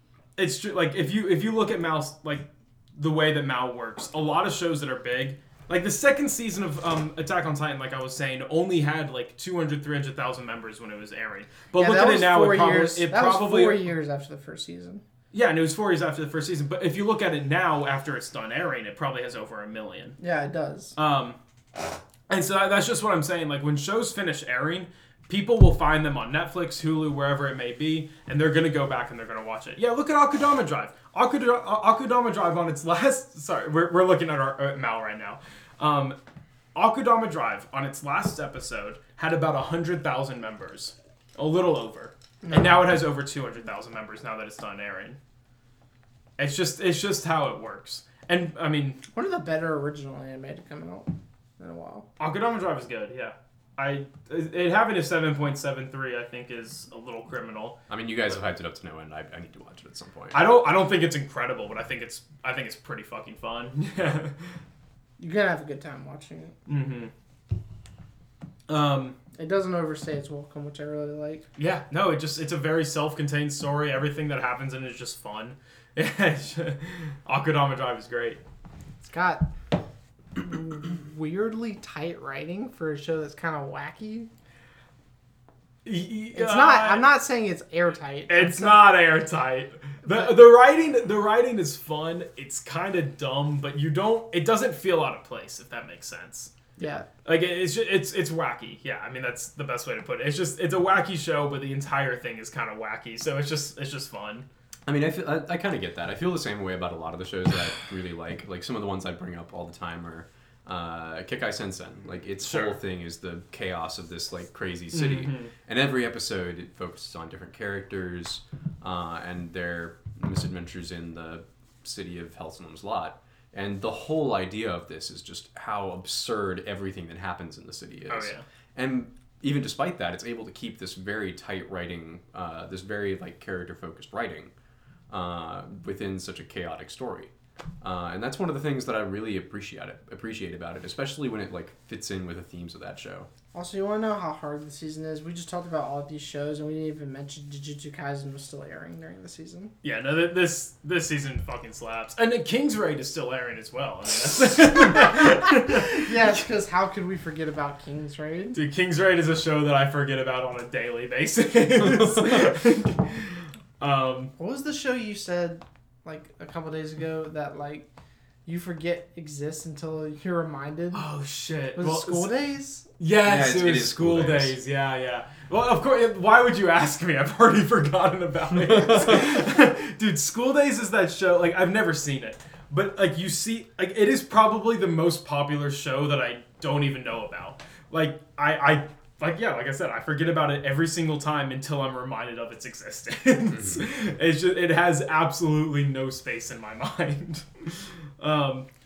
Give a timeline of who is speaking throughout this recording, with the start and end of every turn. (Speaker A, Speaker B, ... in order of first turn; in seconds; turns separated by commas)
Speaker A: 0.3-13.9, Speaker B: 11.8-15.0, Speaker A: 15.3-20.2, Speaker B: 20.2-20.9, Speaker A: 21.0-21.4, Speaker A: 22.3-36.2, Speaker A: 36.7-45.2, Speaker B: 42.4-42.8, Speaker A: 46.4-49.0, Speaker B: 49.1-52.1, Speaker A: 52.2-57.8, Speaker C: 57.9-60.4, Speaker A: 60.3-64.3, Speaker B: 65.2-66.5, Speaker A: 66.7-67.1, Speaker A: 68.7-69.2, Speaker B: 69.3-71.5, Speaker A: 71.6-78.4, Speaker B: 79.0-79.5, Speaker B: 80.3-84.3, Speaker A: 85.8-87.0, Speaker B: 86.3-88.9, Speaker A: 88.3-96.5, Speaker B: 90.0-90.4, Speaker B: 96.8-97.1, Speaker A: 97.2-104.5, Speaker C: 104.8-134.5, Speaker A: 112.4-112.8, Speaker A: 114.9-115.5, Speaker A: 128.1-128.4, Speaker C: 135.1-137.3, Speaker C: 137.8-143.3, Speaker B: 143.5-149.7, Speaker A: 149.8-156.1, Speaker B: 154.9-158.6, Speaker A: 158.5-164.3, Speaker B: 164.4-167.9, Speaker B: 168.4-171.1, Speaker A: 170.9-172.3, Speaker B: 171.8-172.8, Speaker A: 173.0-198.7, Speaker C: 173.2-174.6, Speaker C: 193.5-193.8